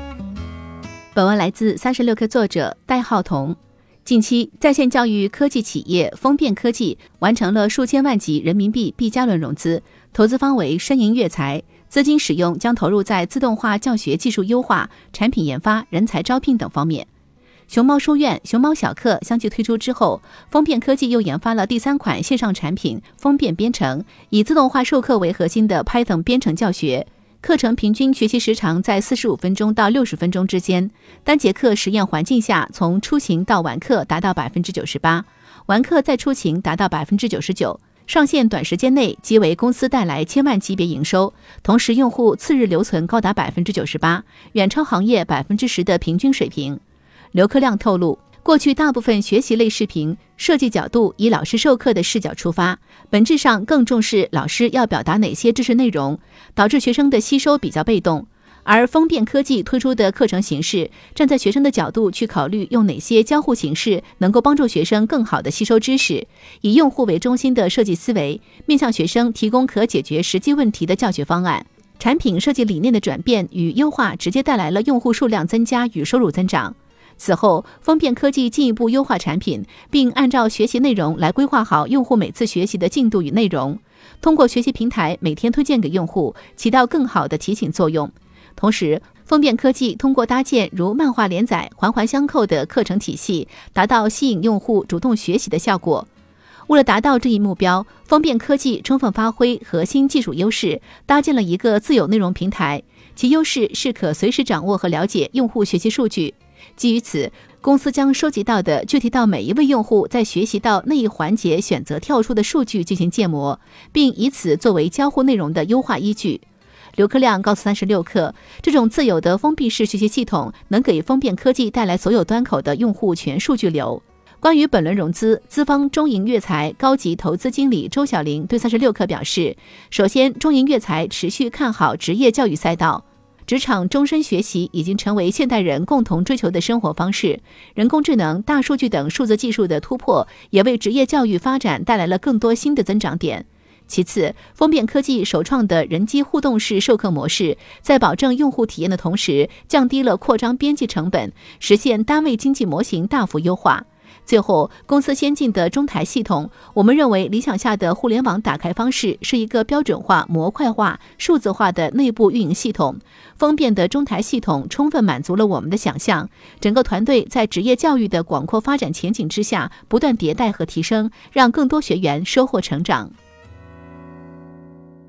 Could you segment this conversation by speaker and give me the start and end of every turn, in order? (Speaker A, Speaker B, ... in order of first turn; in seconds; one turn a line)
Speaker A: 1.1-17.1
Speaker A: 17.7-46.8
Speaker A: 47.3-96.1
Speaker A: 96.7-116.4
Speaker A: 117.0-173.1